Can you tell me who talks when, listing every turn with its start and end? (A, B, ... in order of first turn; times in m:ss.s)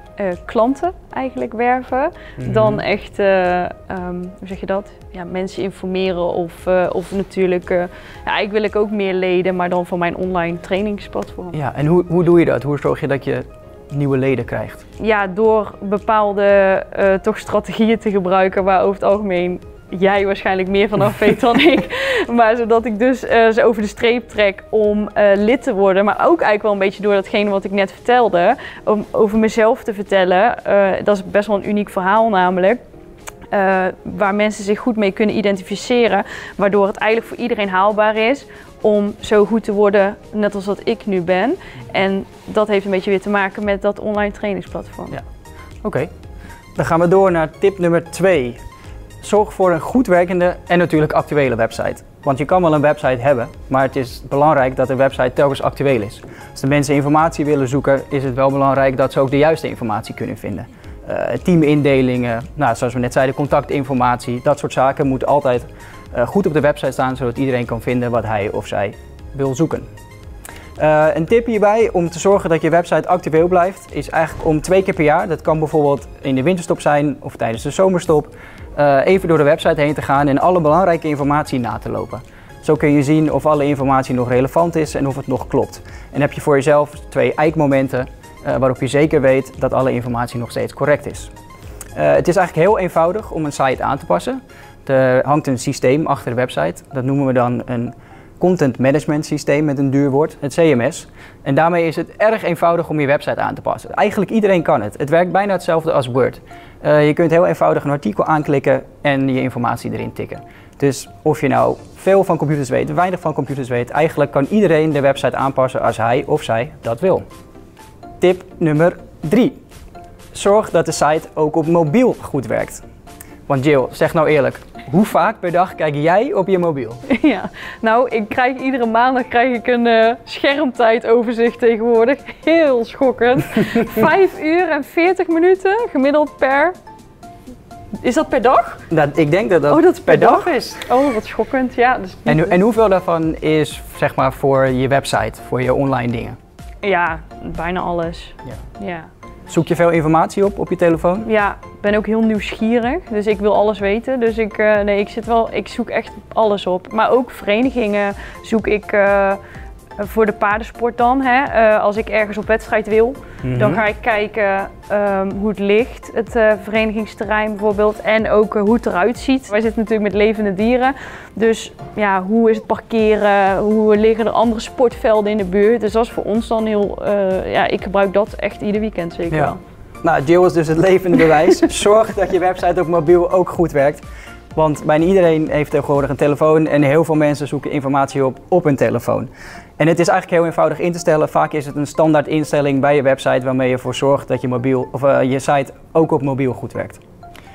0:00.2-0:11.6 A
0:02.4-0:02.8 B
0:11.5-0:14.8 B
0:15.0-0:32.8 A
0:33.5-0:45.2 A
0:45.8-0:46.1 B
0:46.8-0:48.6 B
0:49.2-1:09.9 B
1:10.8-1:31.3 B
1:31.9-1:57.2 B
1:58.2-1:59.6 B
2:00.3-2:02.8 B
2:03.5-2:07.0 B
2:07.1-2:16.7 A
2:18.0-2:18.8 A
2:18.9-2:20.7 B
2:19.7-2:22.6 A
2:22.2-2:26.4 B
2:26.8-2:29.1 A
2:29.5-2:31.3 B
2:31.2-2:39.4 A
2:40.0-2:59.6 A
2:43.4-2:43.8 B
2:59.3-3:04.0 B
3:04.5-3:17.0 B